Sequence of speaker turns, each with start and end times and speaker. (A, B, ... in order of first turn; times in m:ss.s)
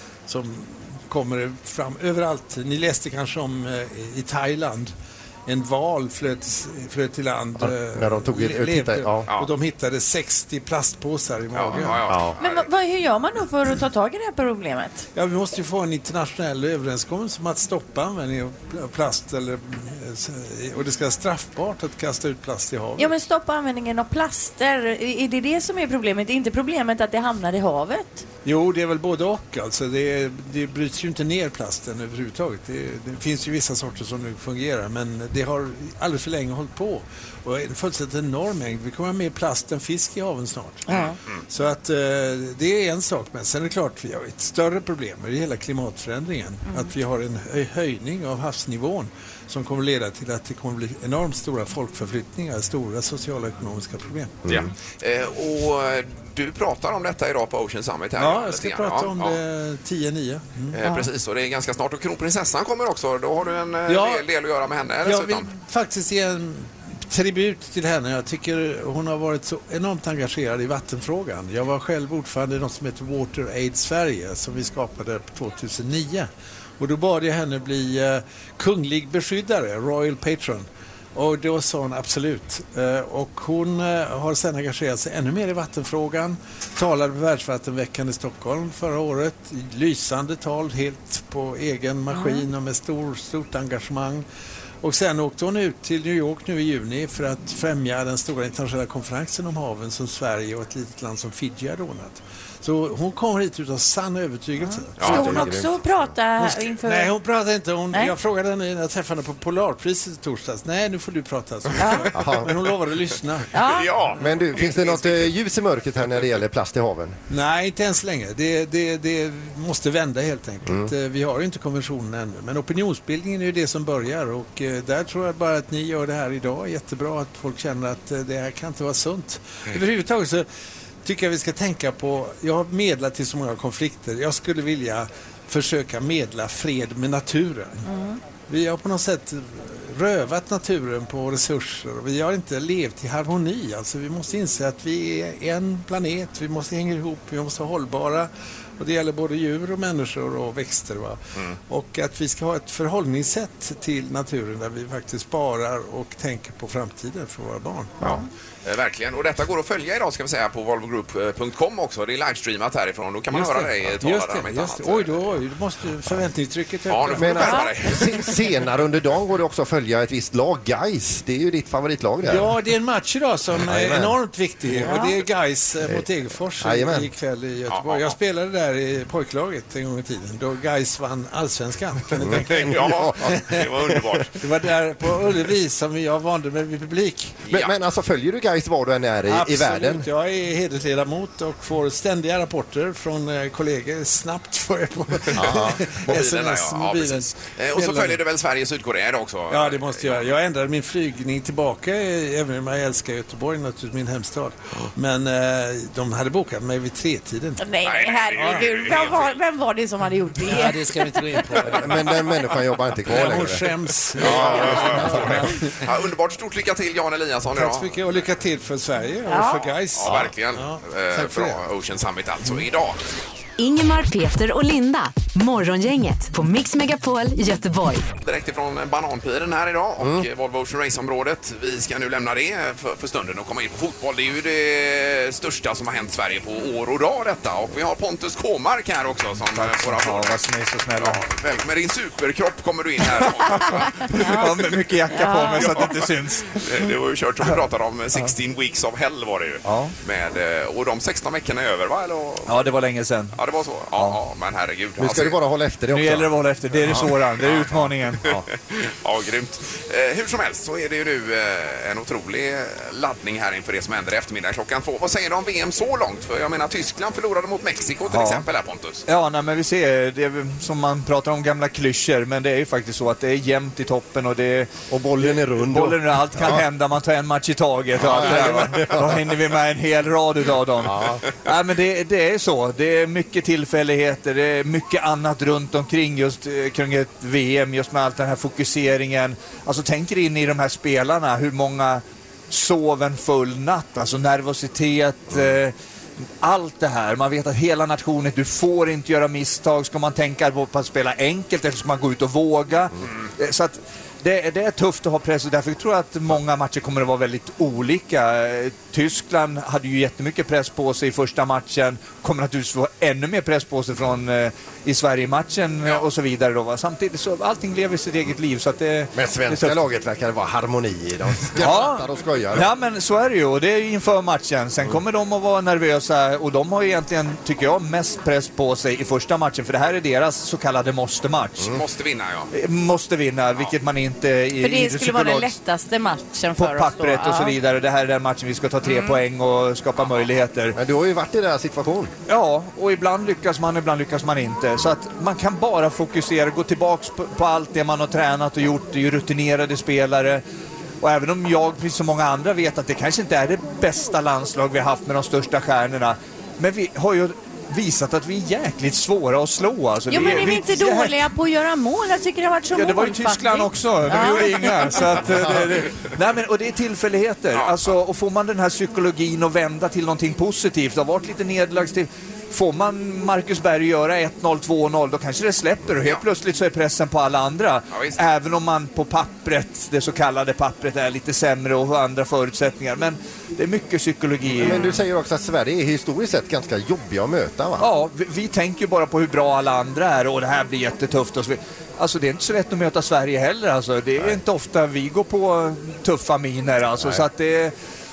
0:00.3-0:04.9 A
0:05.4-0:12.0 A
0:07.6-0:09.3 B
0:11.5-0:12.7 C
0:12.1-0:12.3 B
0:12.4-0:15.0 D
0:15.1-0:23.1 A
0:23.0-0:28.2 D
0:28.4-0:40.8 A
0:40.9-0:41.4 C
0:41.5-0:54.5 A
0:54.5-0:59.4 C
0:58.2-1:01.0 A
1:00.7-1:05.5 C
1:03.9-1:04.2 A
1:05.0-1:34.2 A
1:32.1-1:32.4 D
1:34.8-1:45.6 A
1:44.6-1:47.1 D
1:45.0-1:45.3 C
1:45.0-1:46.1 B
1:46.4-1:54.2 A
1:51.8-1:52.1 D
1:52.1-1:52.5 B
1:53.5-1:53.9 D
1:53.6-1:55.3 C
1:54.2-1:57.2 B
1:57.3-2:10.4 A
2:00.6-2:00.9 B
2:11.0-2:17.8 A
2:17.8-2:18.2 D
2:18.5-2:38.2 A
2:38.0-2:45.4 C
2:43.3-2:47.6 A
2:46.9-2:48.4 C
2:47.1-2:52.5 B
2:47.4-2:47.7 D
2:52.2-3:03.7 A
2:53.6-2:54.2 B
2:54.8-2:55.1 D
2:56.6-2:57.1 B
2:57.7-2:58.2 C
3:02.2-3:03.3 B
3:02.4-3:04.4 C
3:04.4-3:07.4 A
3:07.4-3:07.7 C
3:07.5-3:10.1 B
3:09.3-3:18.2 A
3:15.4-3:20.3 C
3:15.4-3:15.8 B
3:19.5-3:27.6 A
3:27.6-3:31.8 D
3:27.8-3:29.4 C
3:30.6-3:31.9 A
3:31.7-3:35.4 B
3:33.0-3:35.9 A
3:34.2-3:38.0 C
3:37.5-3:41.6 A
3:39.3-3:39.7 D
3:40.0-3:43.0 C
3:43.6-3:48.0 E
3:48.2-4:00.4 C
3:50.0-3:50.2 B
3:59.4-4:01.2 F
4:01.0-4:04.7 C
4:03.1-4:07.6 F
4:04.1-4:04.6 D
4:05.1-4:05.9 D
4:05.6-4:12.7 C
4:09.6-4:09.9 F
4:12.4-4:13.4 F
4:13.3-4:15.4 C
4:13.9-4:14.2 F
4:15.0-4:16.3 B
4:15.9-4:18.4 F
4:17.4-4:29.0 C
4:28.0-4:28.4 F
4:29.1-4:55.7 F
4:34.9-4:36.6 B
4:38.0-4:39.3 B
4:40.8-4:41.2 B
4:56.4-5:19.8 F
5:19.1-5:22.7 B
5:21.5-5:31.8 F
5:31.6-5:32.5 C
5:32.5-5:35.6 F
5:34.6-5:37.5 D
5:36.5-5:40.8 F
5:38.8-5:39.2 D
5:40.0-5:40.3 C
5:40.7-5:42.1 B
5:42.3-5:50.4 F
5:51.0-6:01.3 F
6:00.1-6:05.0 D
6:02.7-6:25.0 F
6:05.5-6:05.7 B
6:07.5-6:07.9 C
6:17.9-6:18.2 C
6:24.6-6:27.9 B
6:27.8-6:37.7 F
6:37.0-6:37.2 B